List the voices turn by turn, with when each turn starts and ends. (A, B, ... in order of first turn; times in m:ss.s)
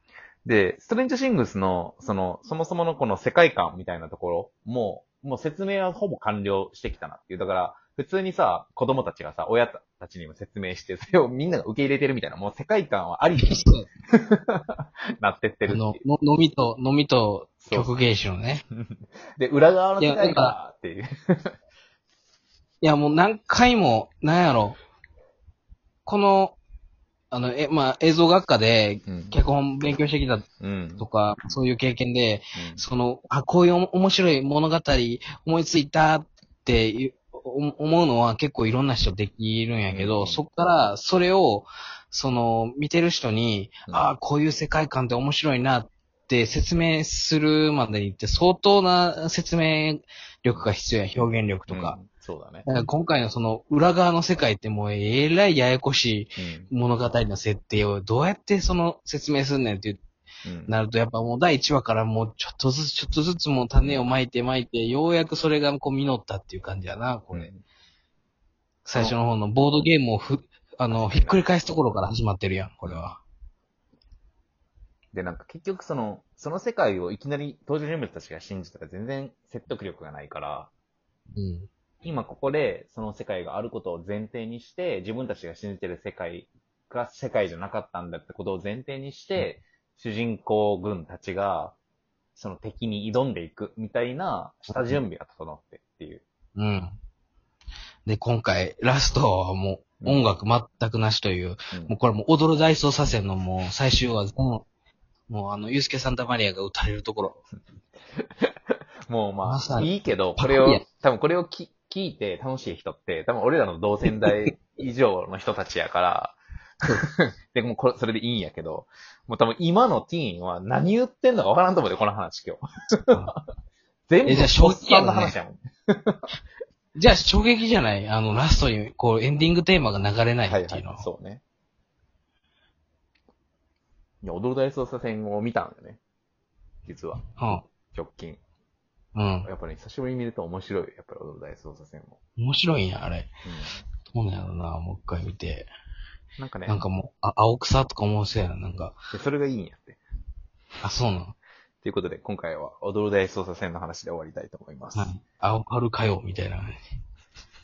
0:00.4-0:16.0 A
0:13.4-0:13.9 B
0:15.6-0:18.6 B
0:17.6-0:17.9 A
0:18.7-0:21.5 A
0:20.0-0:20.6 B
0:22.8-0:24.8 B
0:26.0-0:26.6 B
0:27.3-0:30.4 B
0:29.0-0:29.3 A
0:30.6-0:31.0 A
0:31.0-0:52.0 B
0:32.5-0:32.8 A
0:39.9-0:40.4 A
0:51.7-0:52.7 A
0:52.6-1:00.0 B
0:56.4-0:56.7 A
1:00.4-1:00.7 A
1:00.7-1:07.5 B
1:03.8-1:04.1 A
1:07.3-1:07.6 A
1:08.8-1:13.2 B
1:10.9-1:11.4 A
1:15.1-1:20.7 A
1:21.3-1:21.7 B
1:22.0-1:31.7 A
1:32.3-1:36.2 A
1:34.7-1:35.0 B
1:36.6-1:37.0 B
1:38.0-1:44.6 B
1:40.0-1:40.2 A
1:45.3-1:47.4 B
1:49.1-1:56.4 A
1:49.4-1:50.8 B
1:57.2-2:03.4 A
2:04.1-2:06.2 A
2:04.2-2:05.3 B
2:06.9-2:11.0 B
2:10.4-2:11.4 A
2:14.2-2:16.0 A
2:16.8-2:17.2 A
2:17.4-2:17.6 B
2:17.9-2:18.4 A
2:19.1-2:19.5 B
2:19.4-2:22.2 A
2:22.4-2:23.3 B
2:23.4-2:23.8 A
2:24.1-2:25.7 B
2:26.4-2:26.8 A
2:26.6-2:29.0 B
2:29.1-2:30.0 A
2:30.8-2:31.3 B
2:31.8-2:35.1 A
2:34.9-2:36.9 B